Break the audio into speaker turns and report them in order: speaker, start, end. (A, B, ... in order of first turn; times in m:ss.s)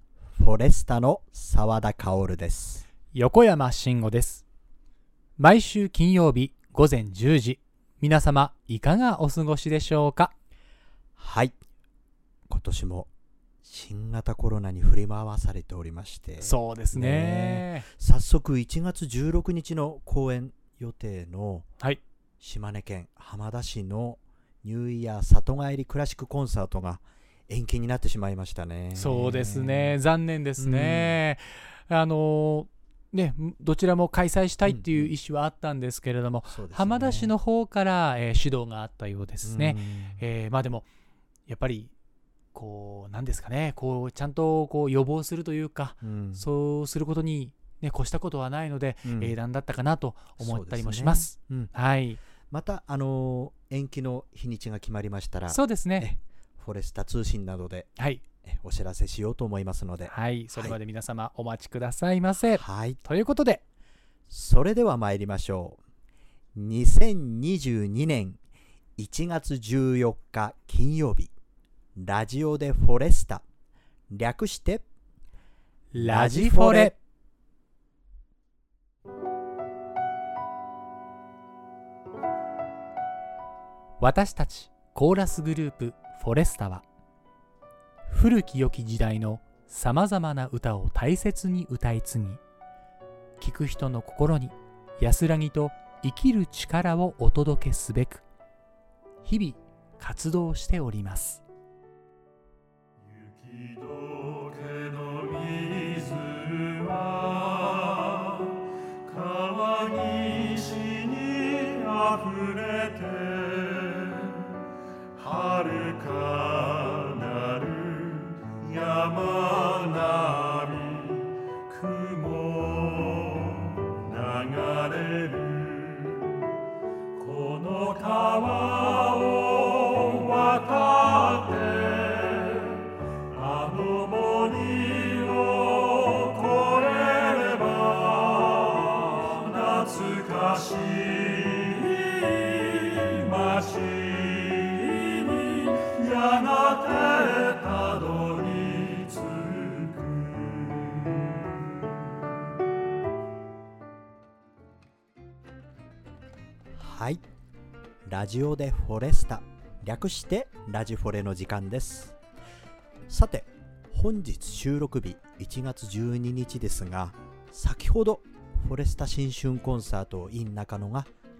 0:00.4-0:02.8 A
0:03.1-0:04.4 B
0:05.4-0:10.3 B
0:11.2-0:11.6 A
0:12.5-0:13.1 A
0:13.6-0:21.7 A
0:16.4-0:17.8 B
0:22.4-0:30.0 A
0:29.0-0:40.9 B
0:30.6-0:31.2 A
0:34.6-0:35.1 A
0:36.5-0:37.3 A
0:39.4-0:40.2 A
0:41.5-0:41.9 B
0:42.5-0:52.2 B
0:46.0-0:46.4 A
0:49.0-0:49.3 A
0:50.4-0:51.7 A
0:52.5-0:57.9 A
0:55.5-0:56.1 B
0:58.4-1:00.8 A
1:00.1-1:03.6 B
1:02.5-1:03.0 A
1:04.3-1:05.8 A
1:06.5-1:08.4 A
1:09.0-1:11.3 A
1:12.0-1:13.4 A
1:14.1-1:14.8 A
1:15.9-1:16.9 B
1:16.0-1:16.9 A
1:24.0-1:26.8 B
1:28.1-1:32.4 B
1:33.4-1:38.2 B
1:39.2-1:41.4 B
1:43.1-1:48.5 C
1:49.1-1:54.4 C
1:55.2-2:06.2 C
2:07.2-2:12.8 C
2:13.3-2:31.3 C
2:36.8-2:37.2 A
2:38.0-2:42.2 A
2:43.1-2:51.1 A